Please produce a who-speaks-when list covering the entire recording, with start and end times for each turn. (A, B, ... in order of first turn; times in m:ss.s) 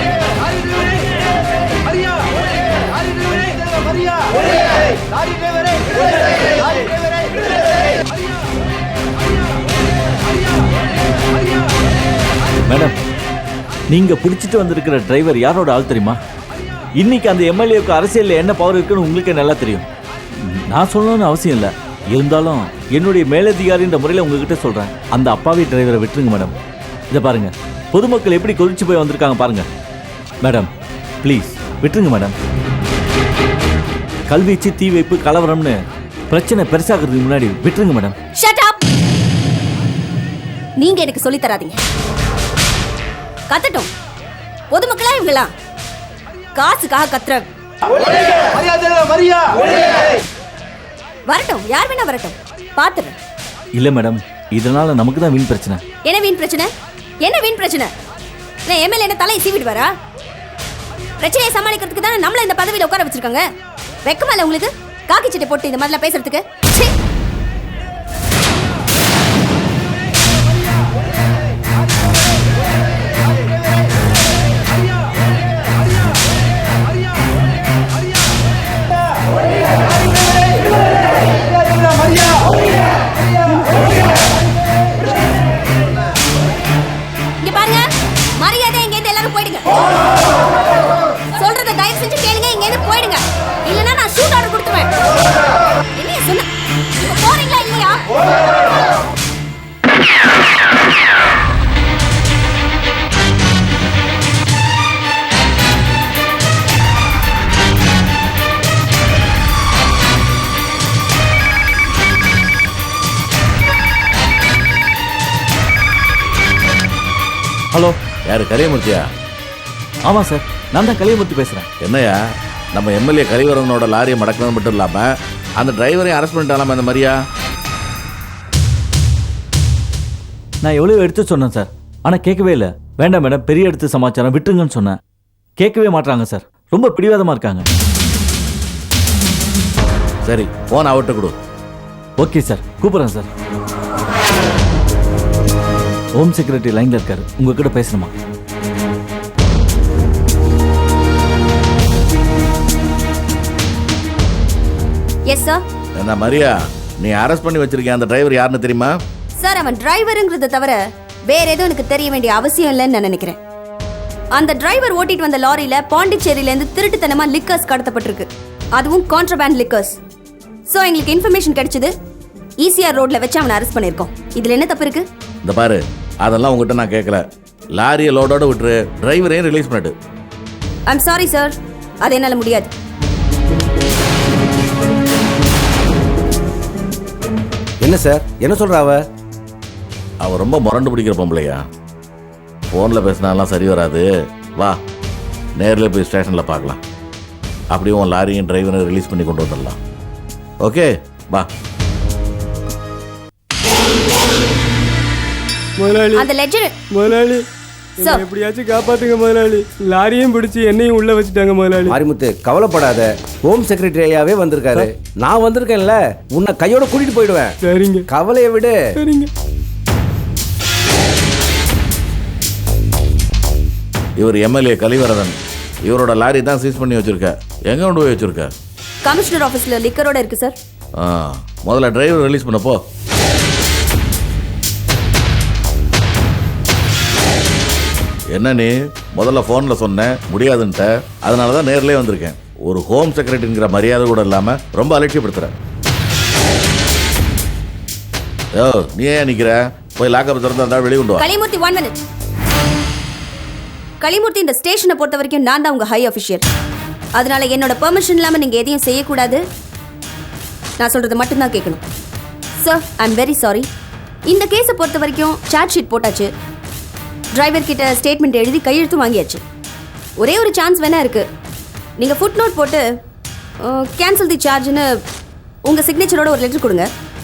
0:12.7-0:13.0 A
0:13.9-0:16.2 A
0:17.0-0:19.9 A
0:20.7-0:26.5 A
0:27.1-0:29.7 A
0:30.4-0:30.7 A
0:31.2-0:32.4 A
0:34.3-0:35.8 A
0:36.3-0:38.2 A
0:38.4-0:38.8 B
0:40.8-0:41.8 B
0:43.5-0:43.9 B
0:44.7-0:45.5 B
0:46.6-0:47.5 B
0:51.3-0:53.2 B
0:53.8-0:55.8 A
0:56.0-0:56.7 B
0:57.2-0:57.9 B
0:58.7-0:59.9 B
1:01.2-1:03.4 B
1:04.0-1:06.9 B
1:27.4-1:27.9 B
1:28.4-1:29.7 B
1:31.4-1:34.9 B
1:36.0-1:36.5 B
1:37.0-1:38.0 B
1:58.3-1:59.1 C
2:00.1-2:01.7 A
2:01.8-2:02.2 C
2:02.7-2:07.2 C
2:10.6-2:15.0 A
2:15.6-2:17.7 A
2:20.2-2:21.3 C
2:22.2-2:23.3 A
2:26.2-2:28.1 A
2:35.3-2:35.6 B
2:36.0-2:38.9 C
2:39.4-2:43.4 B
2:44.3-2:50.0 B
2:50.7-2:51.9 B
2:52.6-2:55.0 B
2:55.4-3:00.0 C
3:00.9-3:02.7 B
3:07.8-3:09.0 D
3:10.2-3:11.6 C
3:12.7-3:14.8 C
3:15.6-3:16.8 C
3:17.7-3:19.8 C
3:20.6-3:21.5 C
3:25.8-3:26.2 E
3:26.1-3:26.7 B
3:27.0-3:27.4 E
3:28.0-3:32.0 E
3:31.9-3:37.6 D
3:37.6-3:38.0 E
3:38.1-3:38.8 D
3:39.0-3:39.3 E
3:44.2-3:48.5 C
3:49.0-3:50.6 B
3:51.0-3:52.8 C
3:58.3-4:05.5 C
4:08.6-4:11.3 C
4:11.2-4:12.0 B
4:14.0-4:16.4 B
4:17.2-4:19.4 B
4:20.8-4:21.8 B
4:22.6-4:23.7 B
4:24.3-4:26.3 B
4:27.3-4:29.4 B
4:30.2-4:31.2 B
4:32.0-4:32.8 B
4:33.6-4:34.9 B
4:35.7-4:36.9 B